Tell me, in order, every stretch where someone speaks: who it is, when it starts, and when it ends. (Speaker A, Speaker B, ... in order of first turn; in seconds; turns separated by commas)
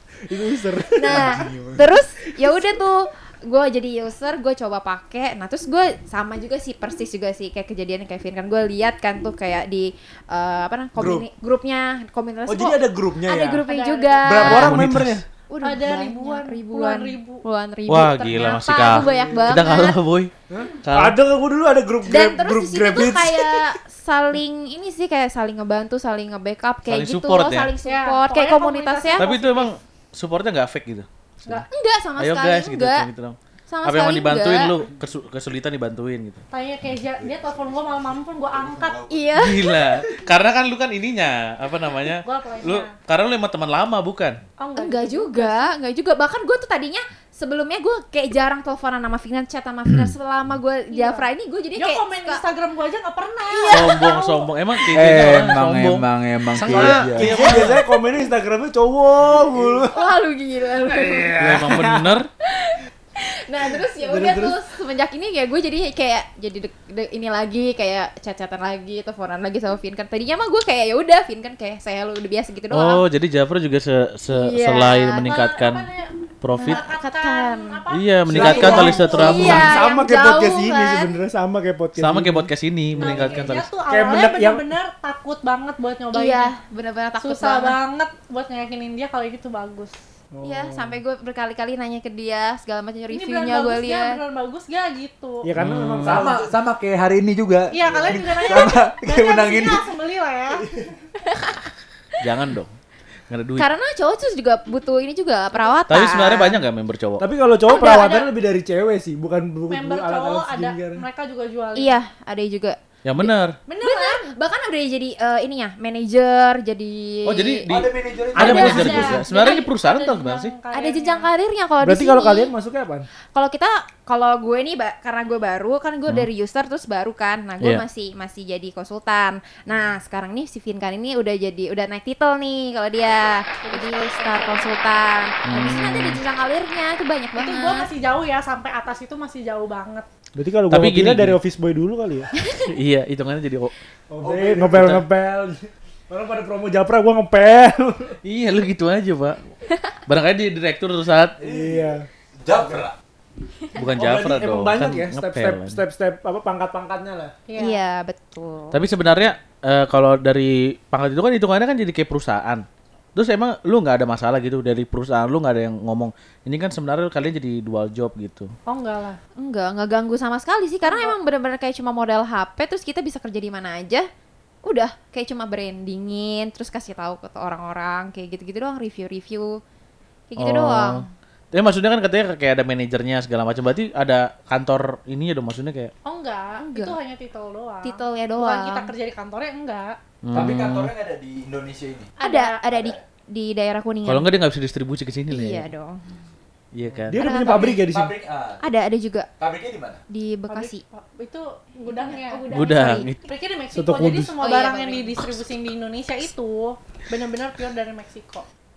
Speaker A: 0.2-1.9, Speaker B: 1.0-14.8, Speaker A: 11.0-11.3, Speaker A: 12.5-13.7, Speaker C: 13.6-14.3, Speaker A: 14.2-15.2, Speaker D: 14.4-15.2, Speaker B: 15.5-20.0, Speaker C: 15.6-17.5, Speaker D: 17.9-20.3, Speaker A: 18.9-19.6, Speaker A: 20.5-23.8, Speaker D: 20.8-21.2, Speaker B: 22.1-29.3, Speaker D: 26.9-27.7, Speaker C: 27.8-29.8, Speaker D: 29.2-36.4, Speaker B: 31.7-33.1, Speaker B: 33.7-34.7, Speaker C: 36.5-39.1, Speaker E: 37.0-40.1, Speaker B: 39.1-39.8, Speaker D: 39.4-44.4, Speaker C: 42.2-42.9, Speaker C: 44.6-45.7, Speaker B: 44.8-52.4, Speaker C: 50.9-54.5, Speaker B: 53.5-54.0, Speaker D: 53.7-57.8, Speaker E: 54.9-57.5, Speaker A: 56.6-60.0, Speaker B: 59.9-61.6, Speaker A: 60.9-62.2, Speaker D: 61.4-62.3, Speaker B: 62.5-73.0, Speaker A: 64.0-64.6, Speaker D: 72.7-75.9, Speaker B: 74.4-75.3, Speaker C: 75.1-79.8, Speaker D: 76.4-76.8, Speaker B: 76.6-77.9, Speaker D: 77.9-79.7, Speaker E: 78.3-79.6, Speaker A: 78.3-83.3, Speaker B: 78.6-81.1, Speaker D: 82.0-83.7, Speaker C: 83.0-86.5, Speaker A: 83.9-84.7, Speaker B: 86.1-87.8, Speaker C: 87.2-90.0, Speaker A: 90.3-90.9, Speaker B: 90.4-94.2, Speaker C: 93.1-95.5, Speaker A: 95.5-96.5, Speaker D: 95.6-96.3, Speaker E: 96.0-99.9, Speaker C: 97.7-100.7, Speaker B: 101.3-101.6, Speaker D: 102.2-102.8, Speaker D: 103.3-103.7, Speaker B: 103.6-106.6, Speaker C: 105.5-105.8, Speaker D: 105.9-107.2, Speaker A: 107.2-111.0, Speaker C: 107.7-108.3, Speaker C: 109.7-112.0, Speaker B: 111.8-113.3, Speaker D: 113.0-113.5, Speaker C: 113.7-114.3, Speaker B: 113.8-117.7, Speaker D: 117.3-120.5, Speaker E: 117.7-119.1, Speaker A: 118.3-119.2, Speaker C: 118.4-121.3, Speaker B: 120.7-122.5, Speaker A: 121.8-123.1, Speaker B: 123.3-137.9, Speaker C: 133.0-134.9, Speaker D: 135.5-136.2, Speaker C: 137.3-140.1, Speaker A: 140.3-142.3, Speaker D: 140.7-141.4, Speaker B: 142.4-142.7, Speaker D: 142.7-143.7, Speaker A: 144.1-148.2, Speaker E: 144.2-144.9, Speaker D: 144.7-145.0, Speaker D: 148.2-149.5, Speaker D: 150.1-151.4, Speaker E: 151.4-152.9, Speaker A: 151.4-152.8, Speaker D: 153.8-155.8, Speaker A: 153.9-157.3, Speaker C: 157.5-157.8, Speaker B: 157.6-158.8, Speaker D: 158.7-168.5, Speaker C: 168.7-169.2, Speaker B: 169.4-174.1, Speaker C: 170.8-171.2, Speaker B: 174.7-179.6, Speaker B: 180.3-181.1, Speaker D: 180.4-185.9, Speaker C: 186.1-189.9, Speaker B: 186.6-187.0, Speaker B: 187.8-188.9, Speaker D: 190.2-190.9, Speaker E: 190.3-192.1, Speaker C: 192.2-192.6, Speaker B: 192.2-194.3, Speaker E: 192.7-193.0, Speaker D: 194.1-195.7, Speaker B: 195.3-196.2, Speaker D: 196.7-197.2, Speaker A: 197.1-198.1, Speaker B: 197.1-197.8, Speaker E: 197.6-198.6, Speaker B: 198.6-199.3, Speaker E: 199.4-200.0, Speaker B: 200.1-200.8, Speaker C: 200.5-202.5, Speaker B: 201.9-203.1, Speaker D: 202.5-203.2, Speaker C: 203.2-208.4, Speaker A: 203.7-204.3, Speaker B: 204.4-205.2